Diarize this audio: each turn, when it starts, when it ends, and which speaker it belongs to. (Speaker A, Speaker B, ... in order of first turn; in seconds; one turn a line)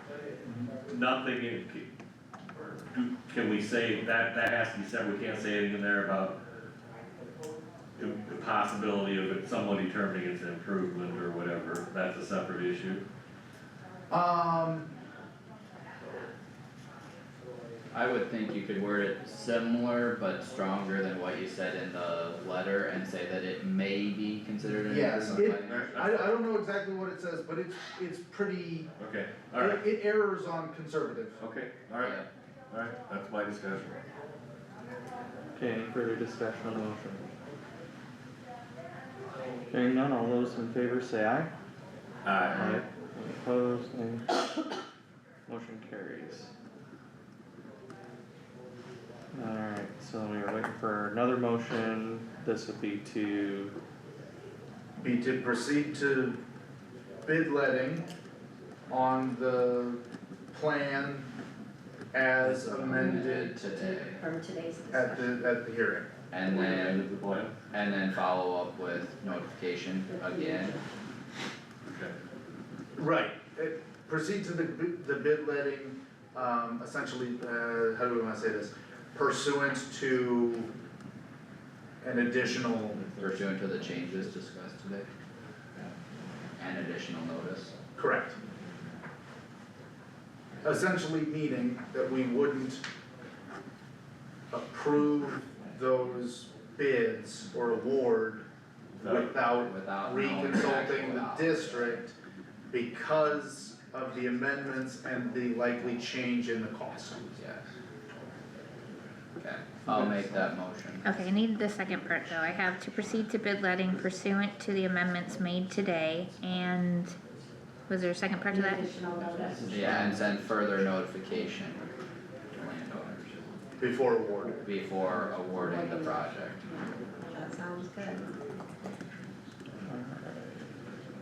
Speaker A: 0.4-0.7
Speaker B: 0.9-1.9
Speaker B: 2.9-6.4
Speaker B: 8.0-13.1
Speaker A: 14.1-14.9
Speaker C: 17.9-26.0
Speaker A: 24.8-28.9
Speaker B: 25.6-26.3
Speaker B: 29.0-29.9
Speaker A: 29.5-31.4
Speaker B: 31.4-34.0
Speaker C: 32.0-32.3
Speaker D: 35.5-37.3
Speaker D: 39.7-41.5
Speaker B: 42.2-42.7
Speaker D: 42.5-44.4
Speaker D: 45.5-46.5
Speaker D: 49.3-53.7
Speaker A: 55.0-56.4
Speaker A: 57.2-58.1
Speaker A: 58.9-60.0
Speaker A: 60.5-61.3
Speaker A: 62.1-63.6
Speaker C: 62.4-64.2
Speaker E: 62.9-65.4
Speaker A: 64.9-66.1
Speaker C: 66.3-67.1
Speaker B: 66.5-67.7
Speaker C: 67.7-70.8
Speaker E: 70.1-70.8
Speaker B: 71.9-72.2
Speaker A: 73.0-80.7
Speaker A: 82.0-83.1
Speaker C: 83.2-85.1
Speaker C: 86.6-87.7
Speaker A: 88.0-88.4
Speaker A: 90.6-92.8
Speaker A: 94.5-98.5
Speaker B: 99.0-99.4
Speaker A: 99.0-102.2
Speaker C: 99.5-101.9
Speaker A: 102.7-107.3
Speaker C: 107.4-107.6
Speaker C: 109.4-111.2
Speaker F: 111.0-117.2
Speaker F: 117.9-118.9
Speaker E: 118.5-120.2
Speaker D: 119.7-120.2
Speaker C: 119.7-121.9
Speaker C: 122.5-123.5
Speaker A: 123.8-124.6
Speaker C: 124.6-126.7
Speaker E: 125.6-128.4
Speaker D: 129.8-130.7